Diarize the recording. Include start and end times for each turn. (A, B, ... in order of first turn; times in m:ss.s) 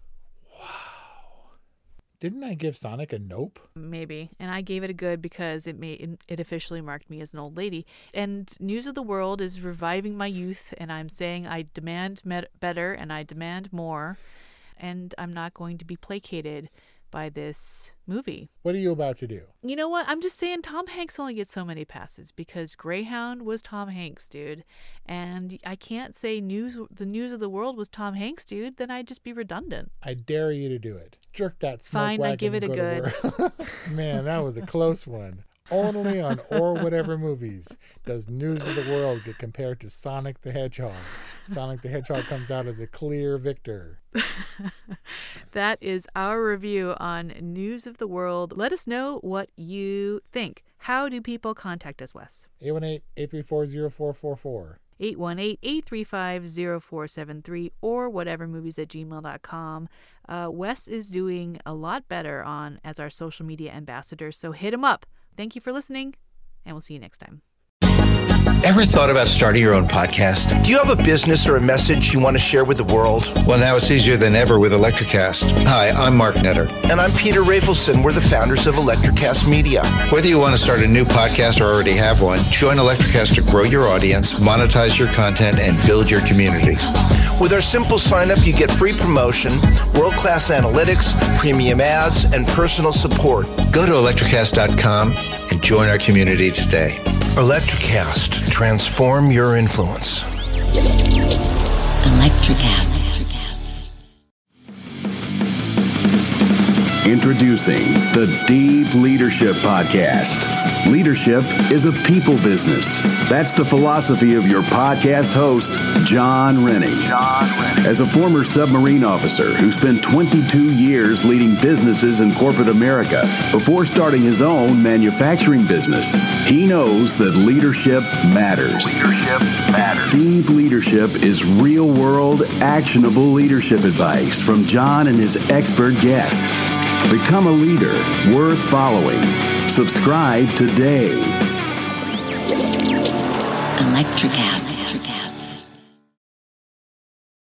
0:00.5-0:01.5 A
0:02.2-0:03.7 A
0:03.8-0:14.2 B
0:14.8-0:18.5 B
0:18.6-0:19.5 A
0:19.6-0:29.9 B
0:30.0-0:44.0 A
0:31.9-0:33.1 B
0:44.2-0:52.5 B
0:52.6-0:54.8 A
0:55.0-1:07.4 B
1:08.6-1:10.6 C
1:10.5-1:13.5 D
1:13.4-1:16.8 C
1:16.8-1:20.1 D
1:20.0-1:26.8 C
1:27.4-1:33.8 D
1:33.6-1:37.0 C
1:37.4-1:40.3 D
1:42.0-1:43.8 E
1:47.0-2:21.4 F
2:23.8-2:25.6 E